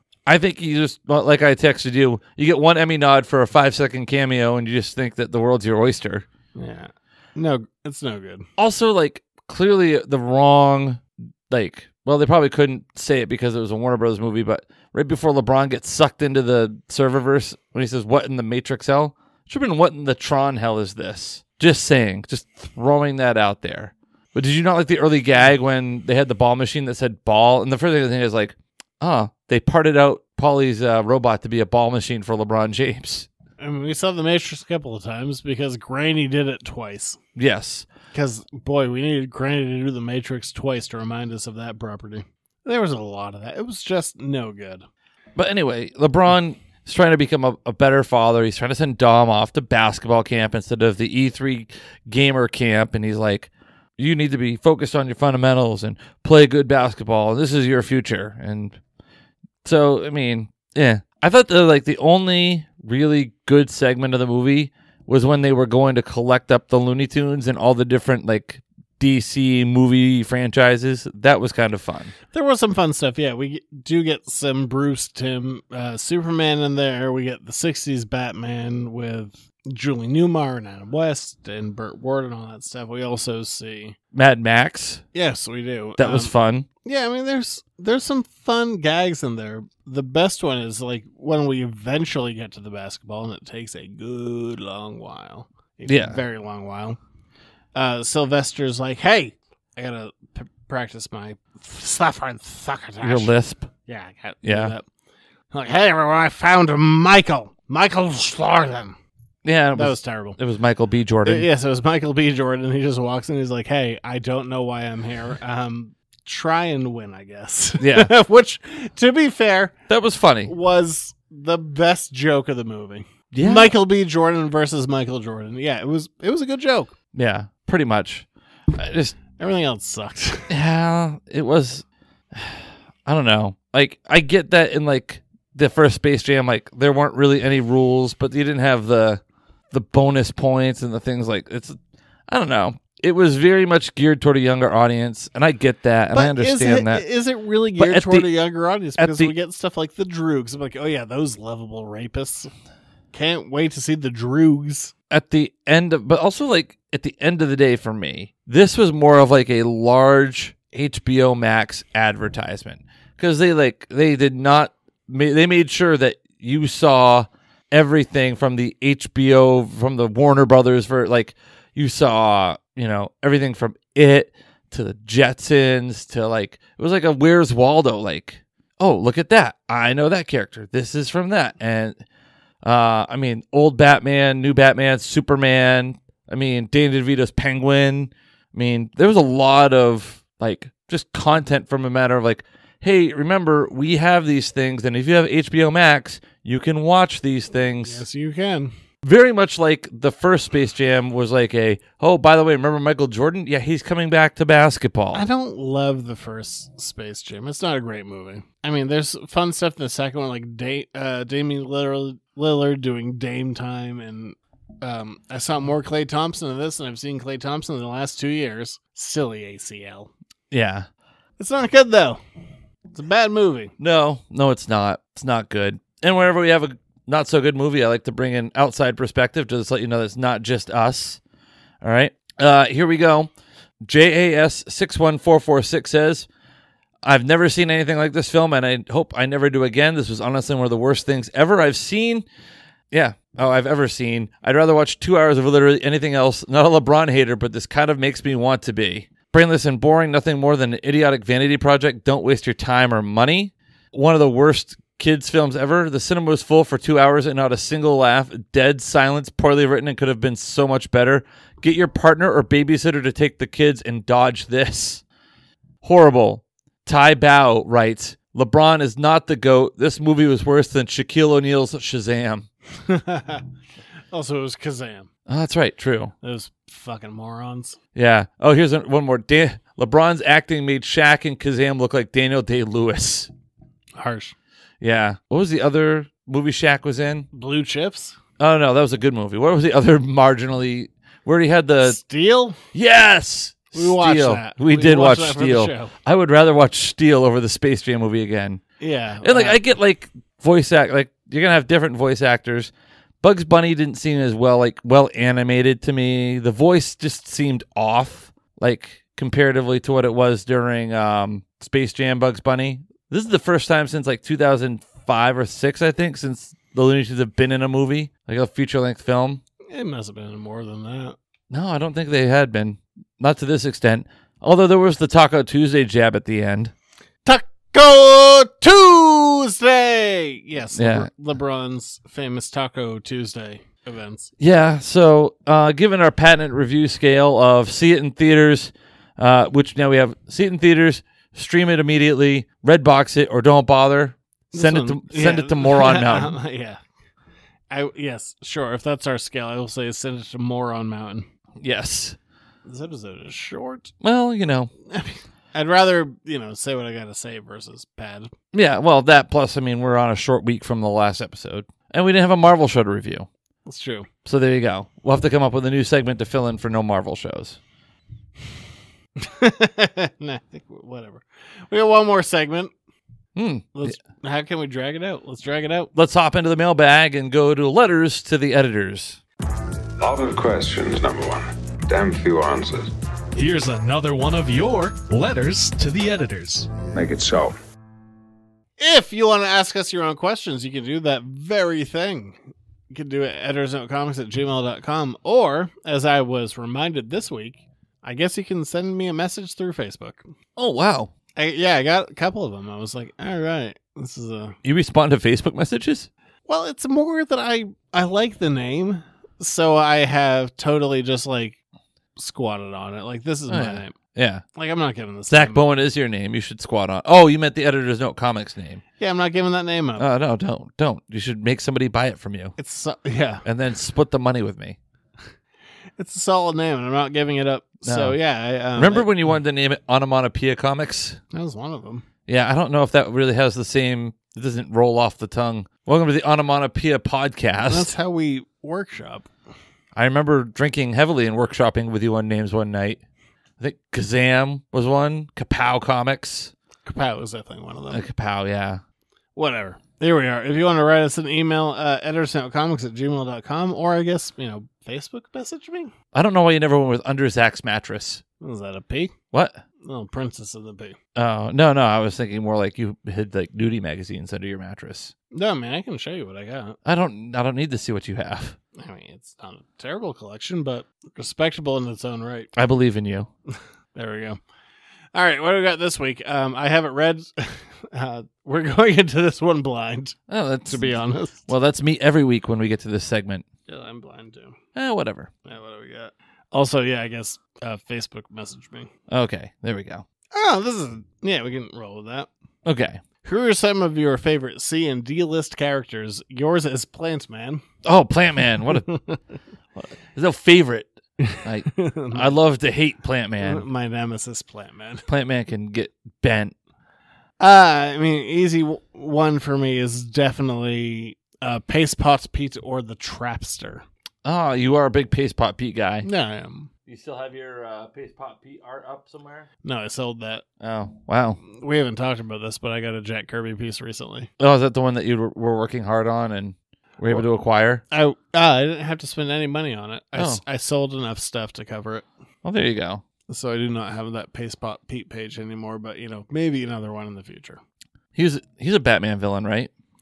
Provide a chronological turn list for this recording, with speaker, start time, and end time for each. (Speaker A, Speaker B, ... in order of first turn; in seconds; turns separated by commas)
Speaker A: 0.3-6.3, Speaker B: 6.6-8.5, Speaker A: 8.6-33.3, Speaker B: 33.6-37.2, Speaker A: 37.4-37.9, Speaker B: 38.1-44.9, Speaker A: 45.4-58.8, Speaker A: 59.6-72.1, Speaker B: 72.3-84.0, Speaker A: 84.1-85.0, Speaker B: 85.1-86.3, Speaker A: 86.0-86.7, Speaker B: 86.8-97.0, Speaker A: 95.9-96.2, Speaker B: 97.8-103.3, Speaker A: 103.0-103.7, Speaker B: 103.9-104.8, Speaker A: 104.4-104.8, Speaker B: 105.5-109.0, Speaker A: 109.4-111.5, Speaker B: 109.8-110.4, Speaker B: 111.2-119.7, Speaker A: 117.8-118.1, Speaker A: 119.9-120.5, Speaker B: 120.5-126.9, Speaker A: 123.3-123.7, Speaker A: 127.1-129.2, Speaker B: 129.4-130.5, Speaker A: 130.5-141.8, Speaker A: 142.3-147.1, Speaker B: 146.1-152.5, Speaker A: 147.8-148.3, Speaker A: 149.0-149.3, Speaker B: 153.1-154.9, Speaker A: 155.1-182.0, Speaker A: 182.6-198.0, Speaker B: 197.8-198.7, Speaker A: 199.0-205.2, Speaker B: 205.1-220.1, Speaker A: 220.5-220.9, Speaker B: 221.4-222.2, Speaker B: 222.9-223.7, Speaker A: 223.8-231.2, Speaker A: 231.8-233.3, Speaker A: 233.8-236.3, Speaker A: 237.0-242.3, Speaker A: 242.9-265.0, Speaker A: 265.8-272.5, Speaker B: 272.9-273.4, Speaker B: 274.1-275.1, Speaker A: 275.3-276.1, Speaker B: 276.2-277.8, Speaker A: 277.9-283.3, Speaker B: 283.9-284.4, Speaker A: 284.8-287.3, Speaker B: 287.3-288.2, Speaker A: 288.4-292.0, Speaker B: 291.8-292.6, Speaker A: 292.7-298.6, Speaker B: 293.7-295.9, Speaker B: 298.8-299.6, Speaker A: 299.2-319.4, Speaker B: 319.7-321.2, Speaker A: 321.5-326.7, Speaker B: 327.2-334.3, Speaker A: 330.8-331.1, Speaker A: 334.4-346.4, Speaker B: 344.5-346.8, Speaker B: 347.7-351.3, Speaker A: 351.6-352.2, Speaker B: 352.6-353.9, Speaker A: 354.0-354.7, Speaker B: 354.9-358.3, Speaker A: 358.5-363.3, Speaker B: 363.7-364.1, Speaker A: 364.2-367.6, Speaker B: 369.2-372.7, Speaker A: 373.4-374.0, Speaker B: 373.8-375.9, Speaker A: 375.9-379.2, Speaker C: 380.0-382.9, Speaker D: 383.4-386.7, Speaker C: 386.9-387.6, Speaker B: 388.8-392.4, Speaker B: 392.9-400.3, Speaker A: 400.6-401.1, Speaker B: 401.4-404.6, Speaker A: 404.6-406.1, Speaker B: 406.5-411.6, Speaker B: 412.2-413.9, Speaker A: 413.5-414.4, Speaker B: 414.6-415.6, Speaker A: 415.3-418.8, Speaker B: 419.0-420.1, Speaker A: 420.0-422.6, Speaker B: 422.6-423.4, Speaker A: 423.4-424.8, Speaker B: 426.0-429.1, Speaker A: 427.9-428.2, Speaker A: 428.8-431.2, Speaker B: 431.3-432.1, Speaker A: 432.3-437.9, Speaker B: 437.7-439.3, Speaker A: 439.9-443.0, Speaker A: 443.6-446.5, Speaker B: 446.9-448.0, Speaker A: 447.9-448.8, Speaker B: 449.4-455.9, Speaker A: 456.1-458.2, Speaker B: 458.4-459.1, Speaker A: 459.3-459.6, Speaker B: 459.8-461.0, Speaker A: 461.2-465.1, Speaker B: 465.3-466.8, Speaker A: 466.9-468.6, Speaker B: 468.8-472.5, Speaker A: 472.5-473.3, Speaker B: 473.9-474.4, Speaker B: 475.1-480.2, Speaker A: 480.3-483.4, Speaker B: 480.7-481.5, Speaker B: 483.7-484.6, Speaker A: 484.8-485.3, Speaker B: 485.5-488.9, Speaker A: 489.1-490.1, Speaker B: 490.3-492.3, Speaker A: 492.6-493.0, Speaker B: 493.2-497.6, Speaker A: 497.8-498.9, Speaker B: 498.7-499.2, Speaker A: 499.8-503.6, Speaker B: 501.2-502.4, Speaker B: 503.4-505.1, Speaker A: 505.1-506.5, Speaker B: 507.4-513.9, Speaker A: 514.2-516.1, Speaker B: 516.0-516.7, Speaker A: 516.9-519.5, Speaker B: 519.6-520.4, Speaker A: 520.6-521.4, Speaker B: 521.5-524.3, Speaker A: 524.4-527.8, Speaker B: 527.9-532.0, Speaker A: 530.2-530.4, Speaker A: 532.4-533.0, Speaker B: 533.3-537.6, Speaker A: 538.1-539.7